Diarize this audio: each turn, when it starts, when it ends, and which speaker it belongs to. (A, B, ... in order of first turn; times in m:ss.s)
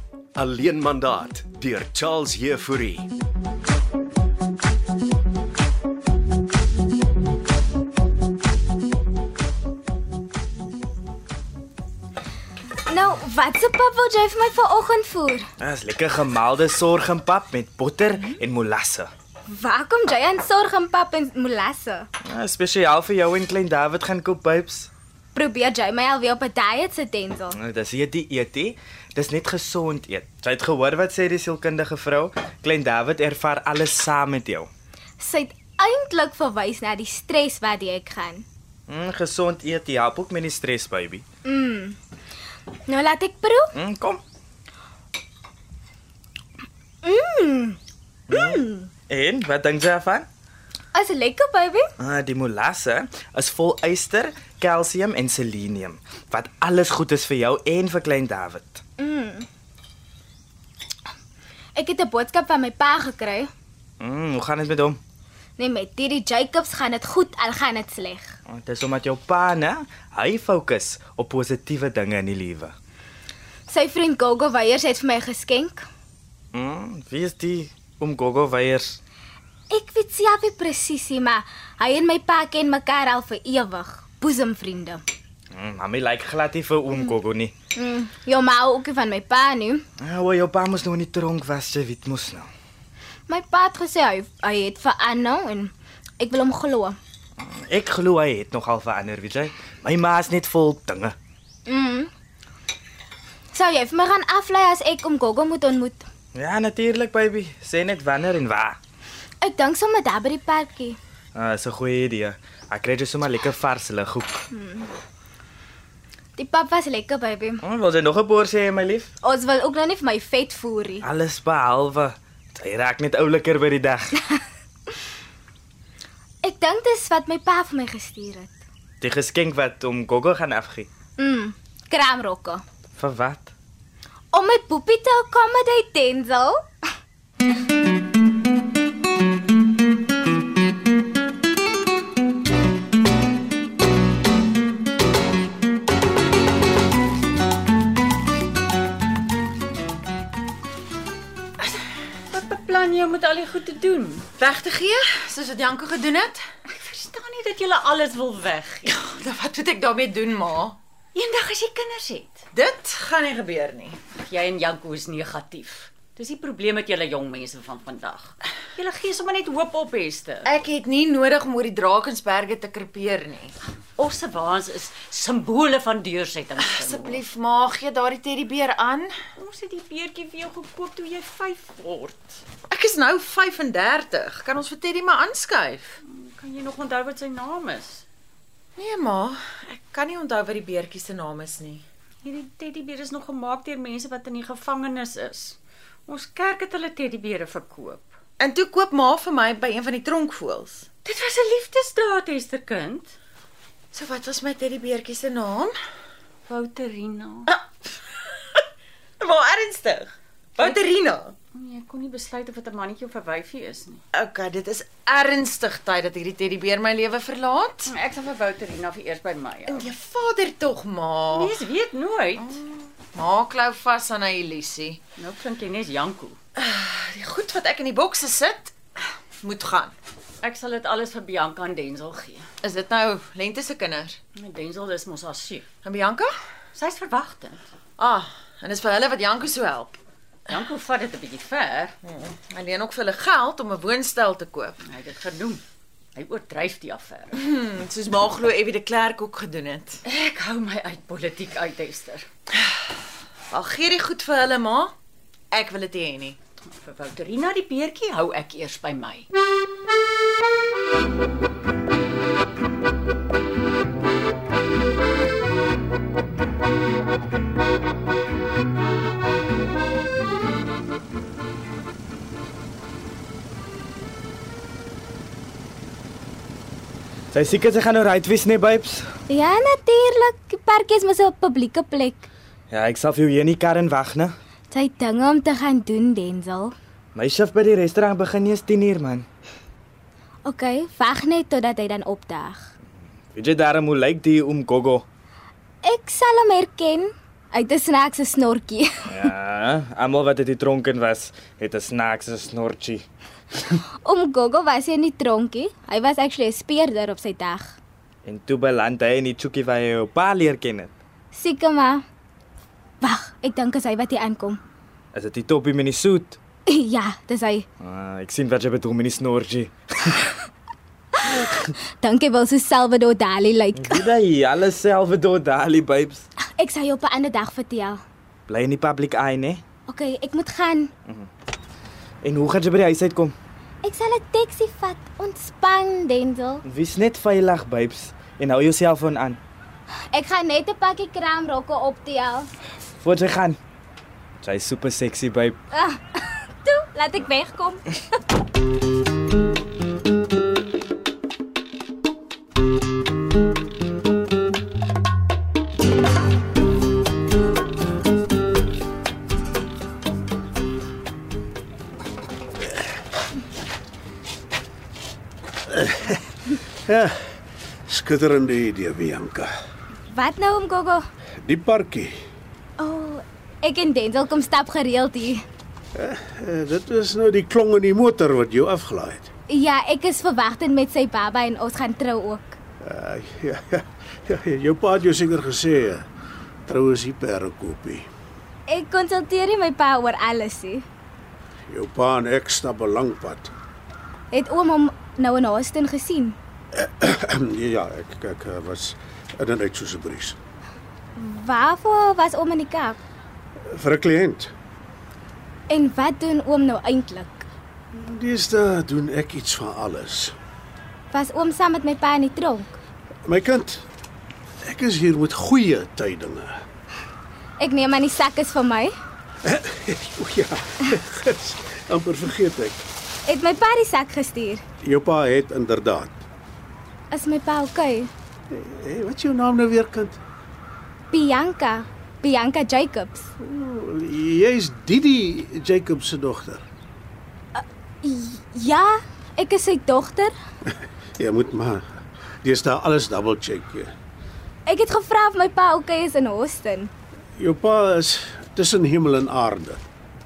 0:00.4-0:03.1 A
0:12.9-0:15.5 B
0:15.6-0:19.1 C
0:19.5-0:22.1 B
0:22.2-0:24.9 C
0:25.3-0:27.6 B
0:27.6-0:34.7 C
0:35.2-0:38.4 B
0:38.9-0:41.2 C
0:41.4-0:42.0 B
0:42.9-0:43.7 B
0:43.8-0:44.2 C
0:47.0-0:47.8 B
0:48.3-0:48.9 B
0:48.3-0:50.3 C
0:50.9-0:51.9 B
0:52.0-0:58.8 C
0:59.0-0:59.5 B
1:01.8-1:03.5 B
1:04.0-1:05.0 C
1:05.6-1:08.4 B
1:08.5-1:12.7 C
1:13.7-1:15.8 B
1:16.5-1:19.0 C
1:19.7-1:25.0 B
1:25.5-1:27.5 C
1:27.8-1:29.8 B
1:30.0-1:32.5 C
1:33.3-1:37.0 B
1:37.4-1:41.2 C
1:41.7-1:42.1 B
1:43.5-1:46.1 B
1:46.4-1:48.8 C
1:49.4-1:51.0 B
1:51.4-1:54.4 C
1:54.5-1:54.9 B
1:56.4-1:57.6 B
1:57.6-1:59.1 C
1:59.2-2:01.0 B
2:01.0-2:04.2 C
2:06.4-2:08.5 B
2:09.0-2:10.9 C
2:11.2-2:12.6 B
2:13.0-2:13.5 C
2:14.3-2:16.6 B
2:32.3-2:34.3 D
2:34.4-2:36.4 E
2:36.7-2:38.9 D
2:38.9-2:40.8 E
2:41.2-2:42.4 D
2:42.5-2:44.0 E
2:44.1-2:50.5 D
2:50.4-2:53.6 E
2:54.0-2:57.2 D
2:56.6-2:59.1 E
2:59.4-3:02.4 D
3:02.7-3:06.0 E
3:06.0-3:08.0 D
3:08.8-3:11.8 E
3:12.2-3:18.1 D
3:18.4-3:20.9 E
3:21.0-3:23.2 D
3:23.9-3:25.7 E
3:26.5-3:27.5 D
3:29.2-3:31.4 E
3:30.6-3:30.8 D
3:31.5-3:34.0 D
3:34.1-3:37.9 E
3:37.9-3:39.9 D
3:39.7-3:41.6 E
3:41.3-3:42.6 D
3:42.4-3:45.0 E
3:45.2-3:46.4 D
3:46.6-3:48.8 E
3:49.4-3:50.0 E
3:50.4-3:52.5 D
3:52.6-3:54.2 E
3:54.4-3:55.7 D
3:55.8-3:56.3 E
3:56.7-3:57.7 D
3:58.0-4:00.0 E
4:00.5-4:01.9 D
4:02.0-4:04.8 E
4:04.8-4:05.6 D
4:06.2-4:07.4 D
4:07.3-4:10.0 E
4:10.0-4:12.3 D
4:13.5-4:15.0 E
4:15.5-4:16.4 E
4:16.8-4:19.3 D
4:37.3-4:39.1 C
4:39.3-4:42.3 B
4:42.7-4:44.4 C
4:44.7-4:46.8 B
4:47.2-4:49.3 C
4:50.4-4:52.7 B
4:53.3-4:55.0 C
4:55.8-4:58.9 B
4:59.1-5:03.1 C
5:04.0-5:07.8 B
5:08.2-5:10.9 C
5:11.3-5:12.0 B
5:13.0-5:14.6 B
5:15.1-5:16.4 C
5:16.7-5:17.7 B
5:17.8-5:20.3 C
5:22.0-5:24.1 B
5:23.8-5:26.3 C
5:26.6-5:28.0 B
5:28.5-5:29.6 C
5:29.9-5:30.9 B
5:32.2-5:33.4 C
5:33.8-5:36.6 B
5:36.6-5:39.4 C
5:40.1-5:42.5 B
5:43.0-5:43.6 C
5:44.4-5:45.6 C
5:45.7-5:47.8 B
6:05.7-6:06.2 F
6:06.9-6:07.2 F
6:07.9-6:09.5 F
6:10.1-6:11.0 B
6:11.4-6:12.1 F
6:12.8-6:15.4 B
6:16.0-6:19.3 F
6:19.5-6:22.6 B
6:22.8-6:26.0 F
6:26.7-6:28.1 F
6:28.7-6:30.8 B
6:31.7-6:33.5 F
6:34.3-6:36.4 B
6:36.7-6:40.4 F
6:41.2-6:43.0 B
6:43.7-6:44.5 F
6:45.7-6:47.5 B
6:47.9-6:50.3 F
6:51.1-6:52.8 B
6:53.3-6:53.8 F
6:54.6-6:56.6 F
6:57.6-6:58.9 B
6:59.4-7:02.8 F
7:03.3-7:04.6 B
7:04.8-7:06.2 F
7:07.1-7:08.1 B
7:08.5-7:10.2 F
7:11.1-7:13.3 B
7:13.4-7:16.6 F
7:17.6-7:20.3 B
7:21.2-7:21.8 F
7:22.4-7:23.9 F
7:24.7-7:26.9 B
7:27.4-7:29.8 F